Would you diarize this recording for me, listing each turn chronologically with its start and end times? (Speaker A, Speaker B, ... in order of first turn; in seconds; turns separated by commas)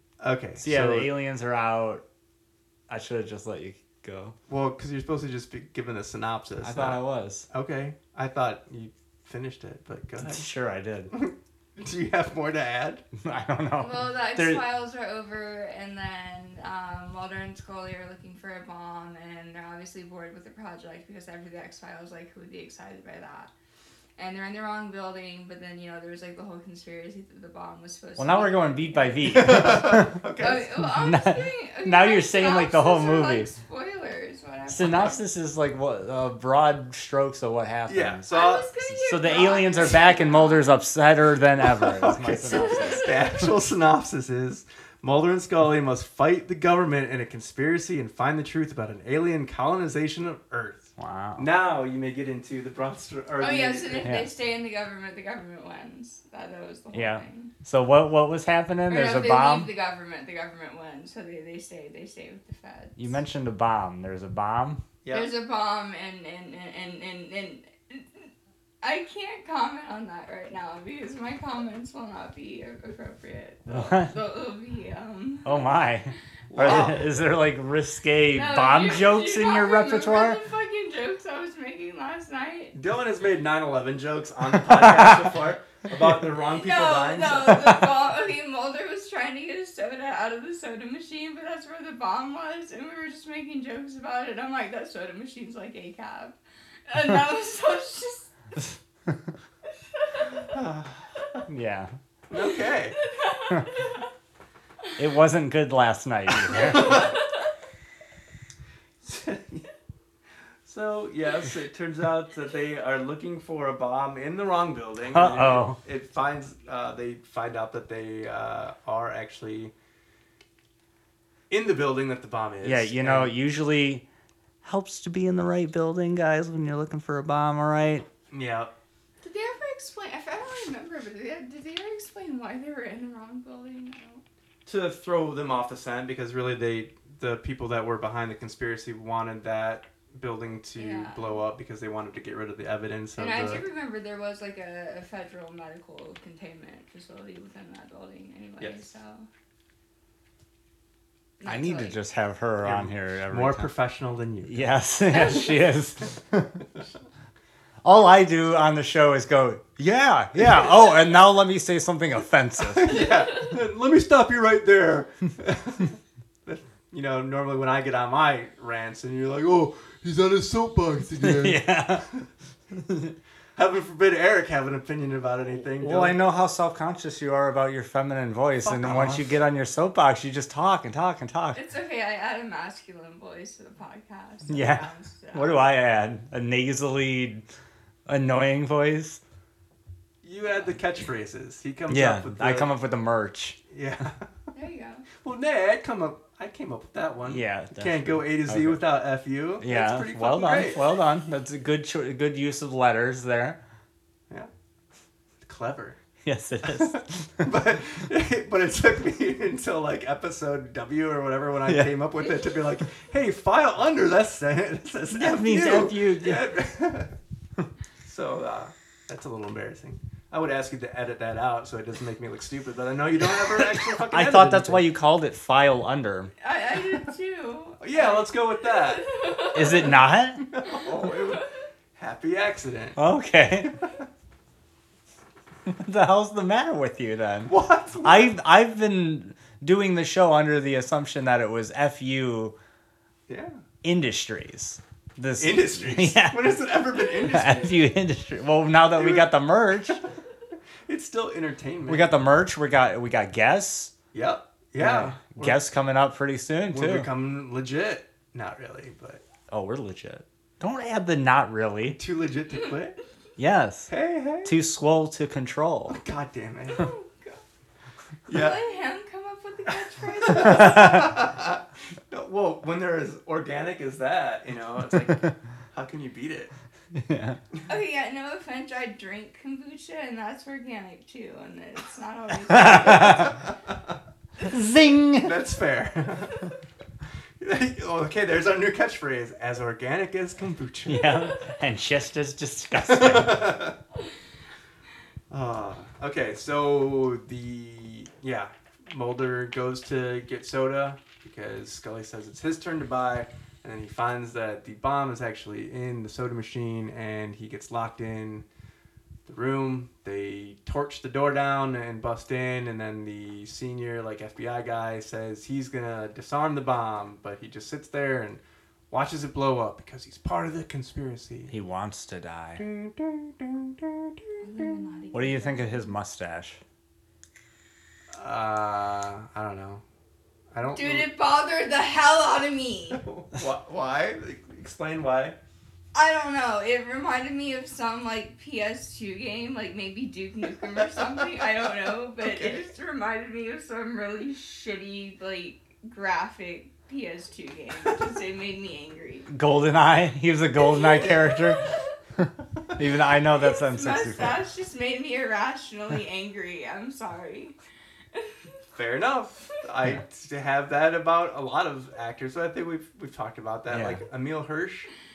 Speaker A: 0.2-1.1, Speaker B: 0.6-2.0, Speaker B: 2.9-4.3, Speaker A: 4.5-7.0, Speaker B: 6.6-7.5, Speaker A: 7.5-10.5, Speaker B: 10.2-11.1, Speaker A: 11.1-13.0, Speaker B: 13.2-14.6, Speaker C: 13.8-23.5, Speaker C: 24.2-35.2, Speaker B: 28.2-33.5, Speaker A: 29.2-30.7, Speaker B: 34.7-38.3, Speaker A: 37.9-38.7, Speaker C: 38.3-40.7, Speaker B: 39.0-43.0, Speaker A: 39.2-39.7, Speaker A: 41.6-54.1, Speaker C: 42.4-43.5, Speaker B: 51.0-51.5, Speaker C: 53.4-57.5, Speaker B: 54.0-54.3, Speaker B: 56.9-59.7, Speaker C: 58.9-63.2, Speaker B: 63.0-64.8, Speaker A: 65.0-65.3, Speaker C: 65.1-68.3, Speaker C: 68.8-75.8, Speaker B: 73.7-74.1, Speaker B: 75.4-80.4, Speaker A: 76.5-77.1, Speaker C: 78.3-82.8, Speaker A: 82.7-87.6, Speaker B: 84.6-85.3, Speaker C: 86.6-98.3, Speaker B: 87.5-87.8, Speaker C: 100.0-100.5, Speaker A: 100.5-101.5, Speaker B: 101.5-101.9, Speaker A: 102.3-103.0, Speaker C: 103.0-104.0, Speaker B: 105.0-107.1, Speaker C: 106.5-107.1, Speaker A: 109.0-109.7, Speaker A: 110.6-119.7, Speaker B: 115.1-115.8, Speaker A: 121.5-123.3, Speaker B: 122.6-124.1, Speaker B: 124.6-128.1, Speaker A: 128.3-128.7, Speaker C: 129.2-134.2, Speaker A: 134.7-143.6, Speaker C: 140.8-141.4, Speaker C: 143.2-149.3, Speaker A: 148.6-148.9, Speaker C: 151.4-152.0, Speaker B: 151.4-153.7, Speaker A: 152.6-154.6, Speaker B: 154.4-156.6, Speaker C: 155.1-155.6, Speaker B: 157.8-163.1, Speaker A: 160.4-160.8, Speaker A: 162.7-172.2, Speaker B: 171.2-172.1, Speaker B: 172.7-173.2, Speaker A: 173.6-176.2, Speaker B: 175.8-181.6, Speaker A: 178.6-179.3, Speaker C: 181.5-185.6, Speaker B: 184.5-187.4, Speaker B: 188.1-189.2, Speaker A: 190.2-192.7, Speaker B: 191.9-193.6, Speaker A: 193.7-194.2, Speaker C: 194.5-195.1, Speaker A: 195.2-200.8, Speaker B: 197.2-198.8, Speaker B: 199.6-203.6, Speaker A: 205.4-206.0, Speaker B: 206.2-207.5, Speaker A: 206.6-217.2, Speaker B: 211.7-211.9, Speaker B: 215.1-216.5, Speaker A: 218.0-224.8, Speaker B: 223.4-226.3, Speaker C: 226.4-230.0, Speaker A: 227.8-229.1, Speaker B: 229.5-230.4, Speaker A: 230.4-233.0, Speaker B: 232.9-233.7, Speaker B: 235.7-242.6, Speaker A: 237.5-238.3, Speaker A: 243.3-243.6, Speaker B: 243.8-246.5, Speaker A: 245.4-247.8, Speaker B: 247.2-250.0, Speaker A: 248.9-249.3, Speaker A: 250.9-252.1, Speaker B: 251.9-253.9, Speaker A: 254.1-255.6, Speaker B: 254.8-257.1, Speaker A: 256.7-259.2, Speaker B: 259.5-262.0, Speaker A: 262.0-263.0, Speaker B: 263.4-263.9, Speaker A: 263.9-264.5, Speaker B: 264.4-266.0, Speaker A: 265.9-266.9, Speaker C: 266.7-267.4, Speaker A: 268.3-268.6, Speaker C: 268.3-271.0, Speaker A: 270.2-276.5, Speaker B: 270.4-271.1, Speaker B: 276.9-277.4, Speaker C: 277.7-283.4, Speaker B: 282.5-283.4, Speaker A: 283.0-283.3, Speaker B: 284.4-285.3, Speaker A: 285.2-286.5, Speaker A: 287.4-291.1, Speaker B: 290.9-293.6, Speaker A: 292.9-293.8, Speaker A: 295.3-308.4, Speaker A: 309.2-321.5, Speaker B: 321.5-322.6, Speaker A: 322.6-324.7, Speaker C: 324.4-325.9, Speaker B: 325.1-326.6, Speaker A: 328.1-329.8, Speaker A: 330.5-331.1, Speaker C: 330.7-333.0, Speaker A: 332.9-335.4, Speaker C: 335.9-349.3, Speaker A: 340.9-341.4, Speaker A: 342.2-342.6, Speaker B: 349.3-354.4, Speaker C: 350.6-351.9, Speaker C: 353.3-357.5, Speaker C: 358.1-358.4, Speaker A: 358.7-364.9, Speaker B: 363.7-364.0